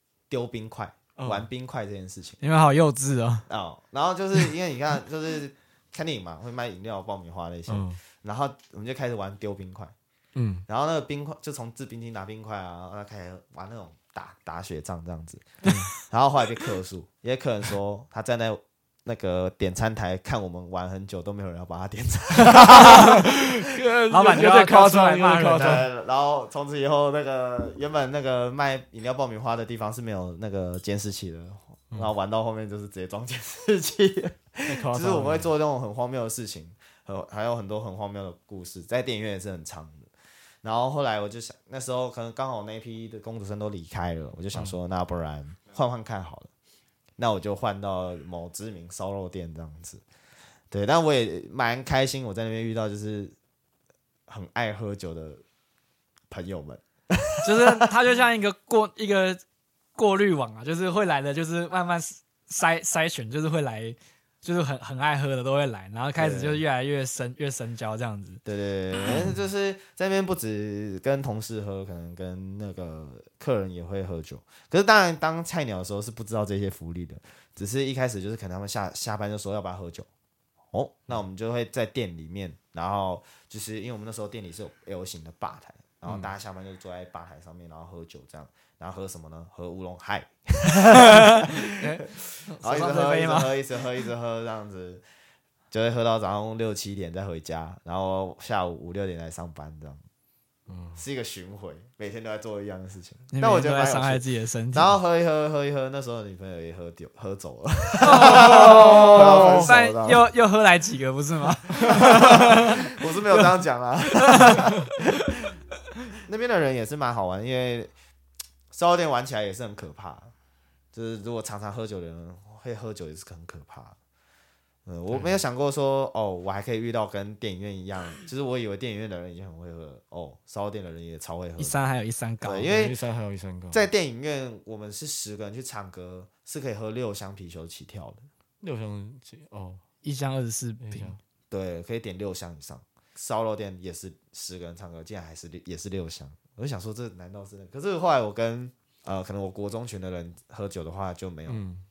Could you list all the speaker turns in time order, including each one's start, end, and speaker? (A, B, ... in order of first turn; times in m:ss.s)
0:00.3-0:02.4 A
0:01.2-0:01.4 B
0:02.4-0:03.4 C
0:03.5-0:09.9 A
0:07.7-0:08.0 B
0:10.3-0:10.6 B
0:10.7-0:23.6 A
0:22.5-0:25.8 B
0:24.1-0:25.8 C
0:25.6-0:40.1 A
0:34.6-0:35.5 B
0:40.6-0:46.5 A
0:47.2-0:50.0 A
0:50.7-0:53.3 A
0:54.3-0:55.4 A
0:56.3-0:57.9 A
0:57.4-0:59.4 C
1:00.0-1:08.4 C
1:06.2-1:06.6 A
1:08.4-1:20.1 A
1:20.7-1:32.1 A
1:30.9-1:33.6 C
1:32.6-1:35.0 A
1:35.7-1:40.0 A
1:40.7-1:41.0 B
1:41.0-1:44.2 A
1:43.3-1:44.9 C
1:44.7-1:50.2 A
1:48.0-1:53.6 C
1:48.1-1:49.7 B
1:51.9-1:55.5 A
1:54.2-1:54.7 C
1:56.2-1:57.9 A
1:58.7-2:00.3 A
2:00.9-2:03.9 A
2:04.8-2:11.7 A
2:11.6-2:12.7 C
2:12.4-2:13.0 A
2:12.7-2:13.9 B
2:13.7-2:18.2 A
2:18.6-2:19.8 B
2:20.0-2:21.1 C
2:20.8-2:21.2 B
2:21.5-2:31.6 A
2:31.5-2:31.8 B